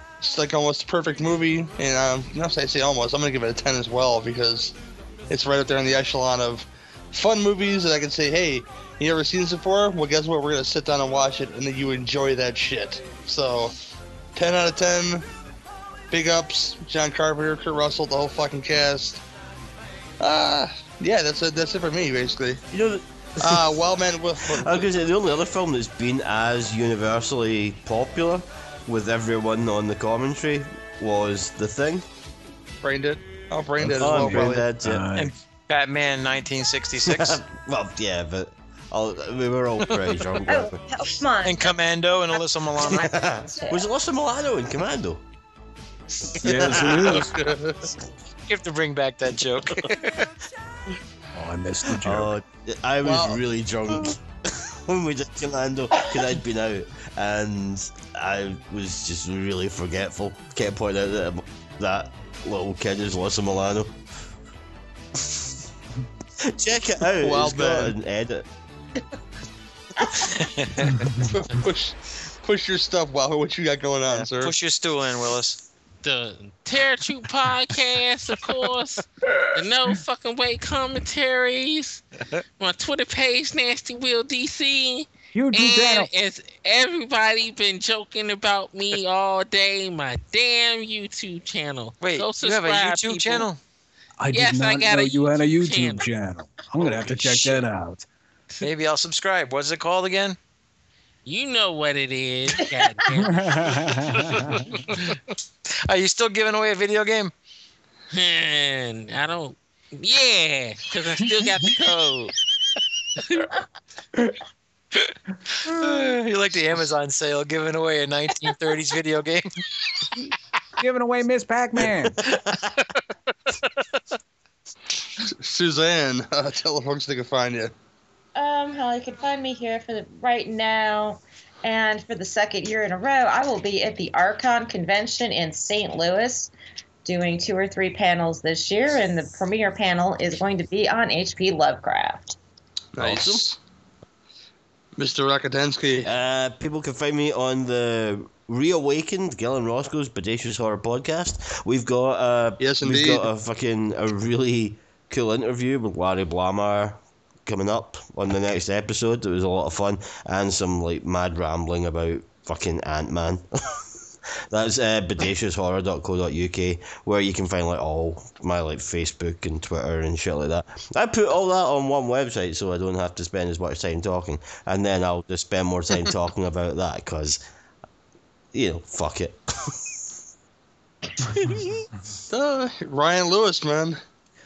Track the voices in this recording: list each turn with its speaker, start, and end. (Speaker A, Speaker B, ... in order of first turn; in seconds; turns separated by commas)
Speaker A: 0.2-4.7, Speaker A: 5.3-13.7, Speaker A: 14.3-15.2, Speaker A: 16.1-19.2, Speaker A: 20.2-22.6, Speaker B: 22.7-23.7, Speaker A: 23.4-24.9, Speaker B: 24.5-32.0, Speaker A: 32.8-34.6, Speaker C: 33.8-35.3, Speaker B: 33.9-35.1, Speaker D: 35.1-37.4, Speaker B: 37.0-40.8, Speaker D: 39.8-40.2, Speaker E: 40.5-41.7, Speaker D: 41.4-43.0, Speaker E: 42.8-43.8, Speaker B: 42.9-45.2, Speaker D: 46.4-47.2, Speaker C: 46.4-47.3, Speaker A: 46.4-47.9, Speaker B: 46.7-47.2, Speaker D: 48.4-50.3, Speaker C: 51.3-52.3, Speaker B: 52.0-64.0, Speaker A: 53.0-53.4, Speaker B: 66.4-68.5, Speaker A: 67.2-67.9, Speaker D: 70.2-71.3, Speaker C: 70.8-71.2, Speaker A: 71.3-74.5, Speaker D: 74.2-75.6, Speaker F: 76.0-82.0, Speaker F: 82.6-93.5, Speaker C: 85.3-86.1, Speaker D: 92.0-93.6, Speaker C: 94.2-98.0, Speaker F: 94.3-96.1, Speaker D: 96.7-97.6, Speaker D: 98.6-100.4, Speaker F: 101.2-103.9, Speaker C: 103.1-104.7, Speaker D: 104.0-105.2, Speaker D: 105.9-107.3, Speaker F: 108.1-112.3, Speaker D: 115.6-119.5, Speaker C: 120.8-122.2, Speaker B: 122.2-122.7, Speaker D: 123.5-124.0, Speaker A: 125.2-127.7, Speaker E: 128.3-136.5, Speaker E: 137.0-142.4, Speaker A: 142.9-143.6, Speaker B: 143.0-143.4, Speaker A: 145.0-146.1, Speaker B: 146.0-163.8, Speaker A: 152.6-153.3, Speaker B: 164.5-177.4, Speaker B: 178.5-179.8, Speaker A: 182.3-184.0